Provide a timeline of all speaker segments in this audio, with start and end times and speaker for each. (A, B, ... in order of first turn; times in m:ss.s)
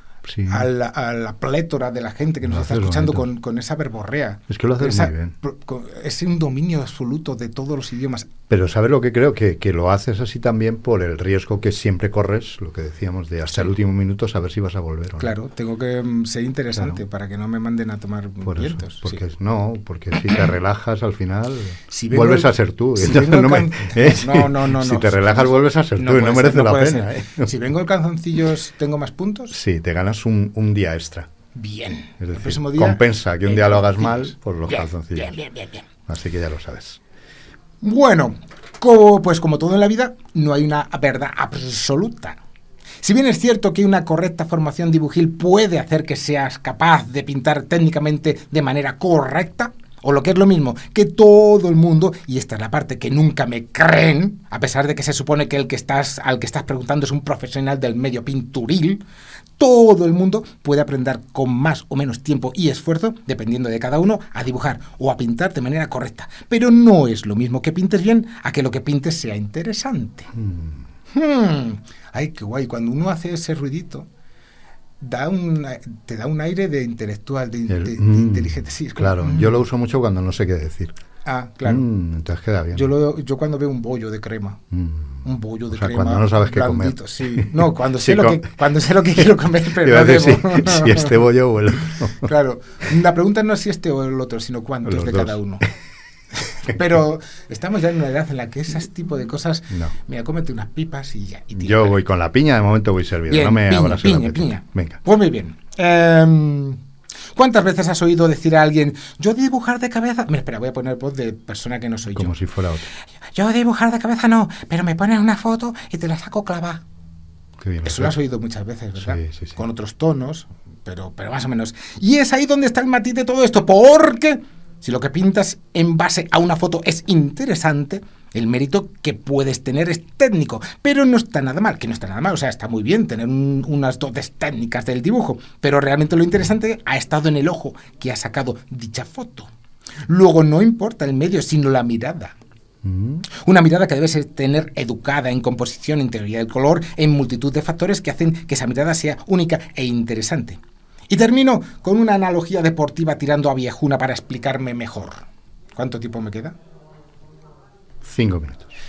0:00.2-0:00.7 A
0:00.5-0:08.3 B
0:02.4-0:03.2 A
0:04.5-0:05.3 A
0:08.5-0:15.3 A
0:15.2-0:19.2 B
0:18.4-0:27.5 A
0:21.9-0:29.6 B
0:29.5-0:31.3 A
0:31.6-0:35.9 B
0:32.2-0:35.4 A
0:36.1-0:37.0 A
0:37.8-0:42.4 B
0:43.0-0:59.0 B
0:59.6-1:10.3 B
1:10.3-1:10.8 A
1:11.1-1:14.1 B
1:15.0-1:19.6 B
1:17.7-1:21.0 A
1:21.2-1:21.9 B
1:21.6-1:22.9 A
1:22.7-1:24.6 B
1:24.7-1:28.4 A
1:25.2-1:31.2 B
1:29.8-1:32.3 A
1:31.9-1:35.7 B
1:34.9-1:35.7 A
1:36.4-1:42.0 B
1:41.6-1:45.0 A
1:43.3-1:46.8 B
1:47.3-1:52.4 B
1:52.1-1:52.9 A
1:53.3-1:56.8 B
1:57.6-1:58.1 A
1:57.8-2:19.5 B
1:59.0-1:59.6 A
2:20.1-2:22.4 B
2:22.8-2:23.2 A
2:23.3-2:36.6 B
2:38.0-2:38.7 A